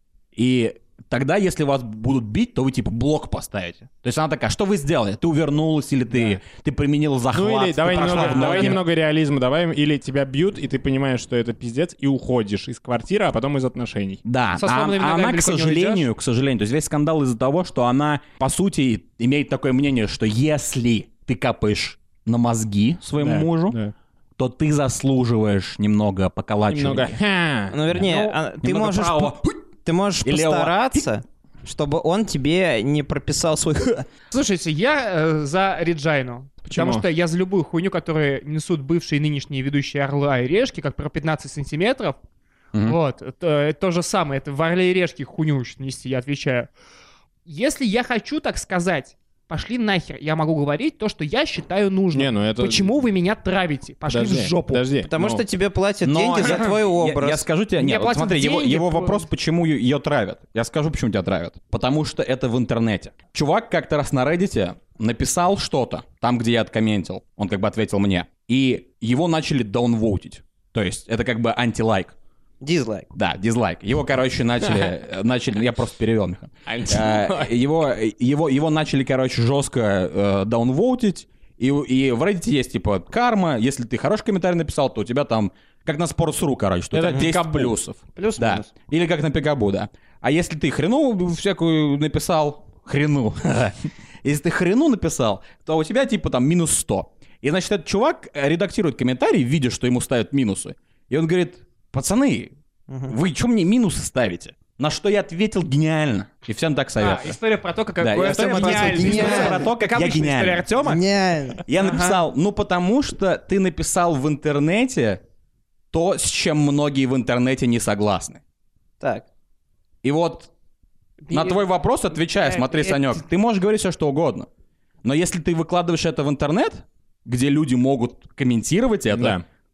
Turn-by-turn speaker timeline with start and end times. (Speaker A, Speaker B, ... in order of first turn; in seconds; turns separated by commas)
Speaker A: 0.3-8.8, Speaker B: 7.3-14.2, Speaker C: 7.8-8.8, Speaker A: 14.2-23.8, Speaker C: 14.6-16.1, Speaker B: 23.2-23.9, Speaker A: 24.4-27.2, Speaker B: 26.7-27.8, Speaker D: 27.7-34.1, Speaker A: 27.9-29.6, Speaker A: 30.2-31.1, Speaker C: 34.3-42.2, Speaker B: 36.7-37.1, Speaker C: 42.8-46.7, Speaker C: 47.5-54.9, Speaker B: 52.1-52.9, Speaker B: 54.1-55.4, Speaker D: 55.1-57.5, Speaker A: 56.0-72.1, Speaker C: 57.8-59.2, Speaker D: 72.6-73.1, Speaker A: 73.1-102.5, Speaker B: 76.7-77.5, Speaker B: 86.9-87.8, Speaker D: 88.2-88.7, Speaker D: 102.9-103.2, Speaker A: 103.1-107.4, Speaker C: 107.0-111.0, Speaker A: 108.0-110.8, Speaker D: 108.2-109.7, Speaker D: 110.8-111.6, Speaker A: 111.7-115.2, Speaker C: 111.8-112.2, Speaker A: 115.9-118.4, Speaker D: 119.0-119.2, Speaker A: 120.0-120.5, Speaker C: 121.2-123.2, Speaker A: 121.3-124.5, Speaker A: 125.0-129.4, Speaker B: 129.1-129.4